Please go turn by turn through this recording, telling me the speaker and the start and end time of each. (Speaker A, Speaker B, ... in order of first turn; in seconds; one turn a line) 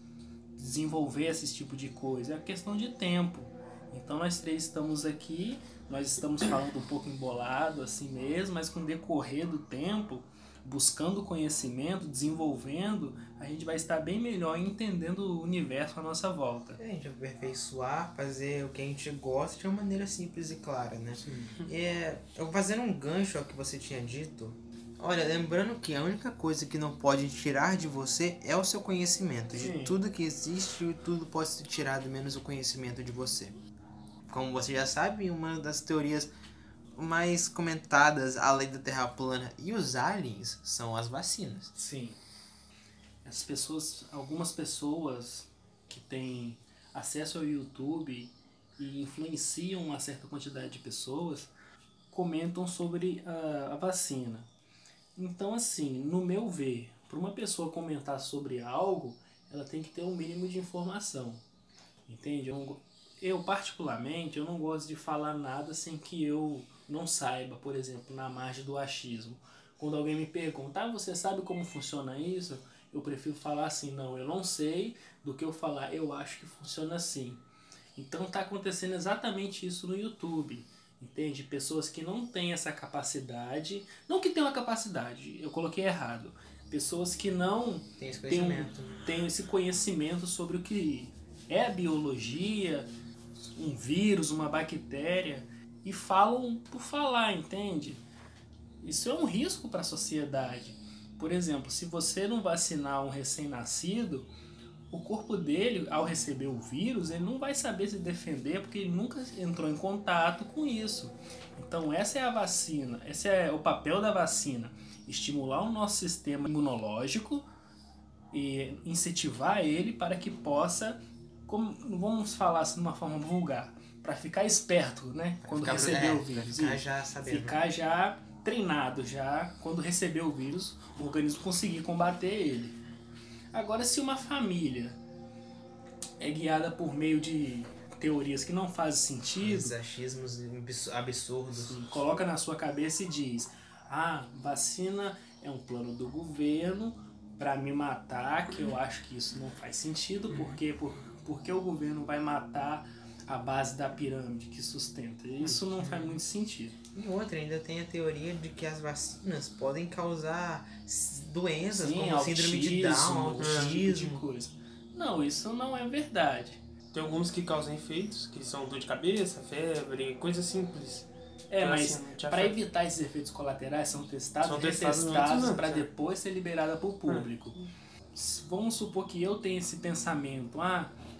Speaker A: 0.6-16.8
Speaker B: 16.8-33.5
Speaker A: 21.2-21.6
Speaker A: 29.5-30.0
Speaker B: 34.3-36.3
Speaker B: 37.0-41.7
Speaker A: 41.7-42.2
Speaker A: 43.2-51.5
Speaker A: 52.1-54.5
Speaker A: 55.1-61.4
Speaker A: 62.1-77.4
Speaker A: 78.0-92.9
Speaker B: 88.0-89.0
Speaker A: 93.5-98.0
Speaker A: 98.8-104.3
Speaker A: 104.9-117.5
Speaker A: 118.3-132.8
Speaker B: 125.4-127.6
Speaker A: 133.5-135.0
Speaker A: 136.2-139.8
Speaker B: 139.4-141.8
Speaker A: 141.5-156.8
Speaker B: 150.3-150.6
Speaker B: 155.8-156.2
Speaker B: 156.9-164.2
Speaker A: 161.7-166.6
Speaker C: 163.4-163.7
Speaker C: 166.9-171.1
Speaker A: 171.5-177.6
Speaker C: 171.6-172.6
Speaker C: 174.4-175.8
Speaker C: 177.1-177.7
Speaker A: 178.1-181.0